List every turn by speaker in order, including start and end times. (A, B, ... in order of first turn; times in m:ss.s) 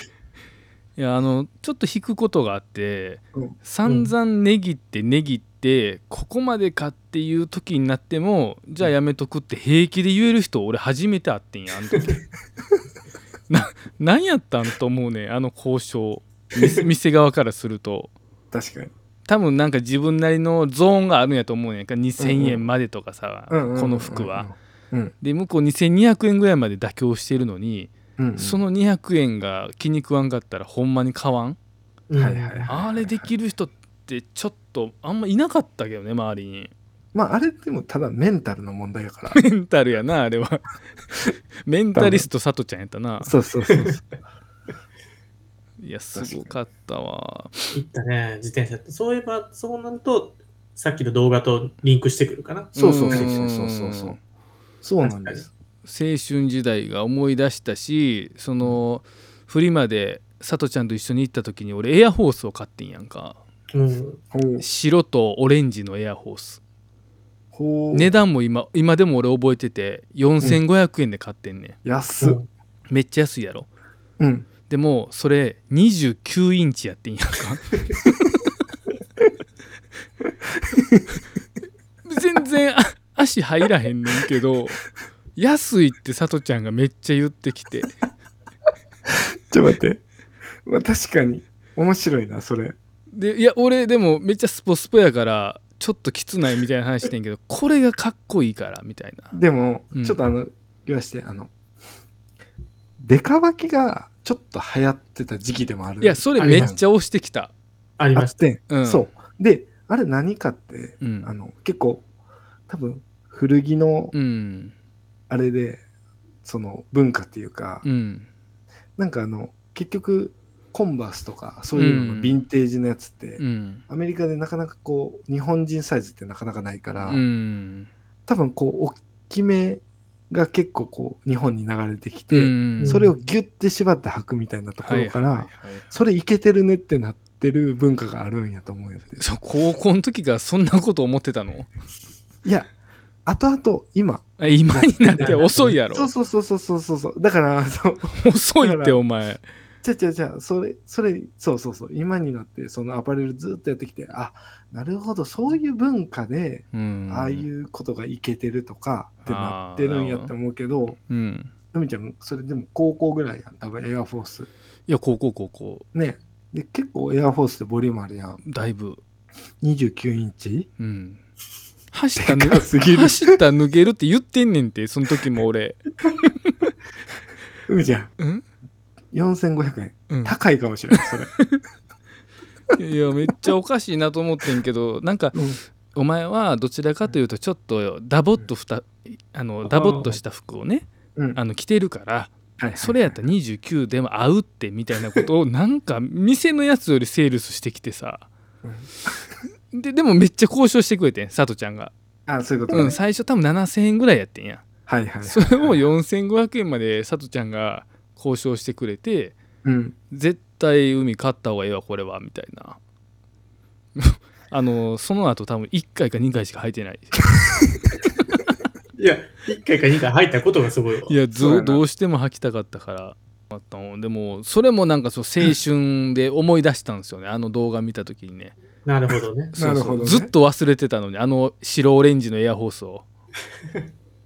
0:01.0-0:12.2 A
0:03.9-0:04.1 B
0:13.5-0:18.1 A
0:18.5-0:18.9 C
0:19.3-0:24.5 A
0:22.2-0:22.7 C
0:23.5-0:25.1 C
0:25.2-0:31.6 A
0:28.2-0:28.6 C
0:32.1-0:32.7 B
0:32.2-0:33.3 C
0:32.7-0:36.7 A
0:37.1-0:39.4 C
0:39.3-0:40.7 A
0:41.7-0:43.4 A
0:42.0-0:42.3 C
0:43.2-0:44.0 C
0:43.7-0:44.0 B
0:45.8-0:47.7 A
0:46.2-0:46.6 C
0:47.7-0:53.3 B
0:52.8-0:54.2 A
0:52.8-0:54.2 C
0:54.8-0:55.5 C
0:55.0-0:55.4 B
0:55.8-1:03.4 A
1:03.7-1:04.2 B
1:04.3-1:04.6 C
1:04.6-1:06.6 A
1:07.5-1:08.1 C
1:07.9-1:11.8 A
1:11.8-1:12.4 C
1:12.2-1:12.5 B
1:12.9-1:13.7 A
1:14.2-1:14.5 C
1:14.7-1:17.8 A
1:20.3-1:21.2 C
1:22.0-1:24.8 A
1:25.4-1:28.0 A
1:29.1-1:30.0 C
1:30.6-1:32.8 C
1:33.1-1:39.4 A
1:39.3-1:41.5 C
1:39.9-1:40.2 A
1:43.0-1:46.8 C
1:46.0-1:47.5 A
1:46.4-1:46.7 B
1:48.0-1:48.4 B
1:48.2-1:52.0 C
1:48.7-1:49.1 A
1:51.0-1:51.3 A
1:52.7-1:54.1 C
1:54.1-1:54.7 A
1:55.3-1:55.8 C
1:56.4-1:57.9 C
1:57.8-1:58.3 A
1:59.0-2:07.2 C
2:01.8-2:02.4 A
2:03.4-2:03.8 A
2:07.0-2:07.9 A
2:08.3-2:19.2 C
2:12.3-2:13.0 A
2:12.8-2:13.1 B
2:14.8-2:15.8 A
2:19.2-2:21.7 A
2:22.4-2:22.7 C
2:23.3-2:29.0 C
2:24.4-2:26.1 A
2:25.2-2:25.8 B
2:28.2-2:29.4 A
2:29.8-2:41.0 C
2:36.7-2:37.5 A
2:39.2-2:40.3 A
2:41.1-2:41.5 A
2:41.7-2:44.5 C
2:44.9-2:45.9 A
2:45.9-2:48.4 C
2:48.4-2:49.0 A
2:49.6-2:50.7 C
2:50.8-2:51.2 A
2:51.9-2:56.7 A
2:52.2-2:53.4 C
2:57.7-2:58.1 C
2:58.2-2:58.4 A
2:59.1-3:01.3 C
3:00.1-3:00.4 A
3:00.9-3:01.6 A
3:02.8-3:18.3 A
3:05.3-3:05.6 C
3:09.7-3:10.1 B
3:12.6-3:13.2 C
3:18.6-3:19.1 C
3:19.7-3:21.9 A
3:22.3-3:23.0 C
3:22.7-3:24.7 A
3:24.9-3:25.8 C
3:25.2-3:29.4 A
3:29.6-3:30.0 C
3:30.1-3:32.8 A
3:34.0-3:37.2 A
3:39.0-3:41.2 B
3:41.1-3:48.6 A
3:41.4-3:41.8 C
3:48.8-3:49.6 B
3:49.6-3:53.0 A
3:49.6-3:50.3 C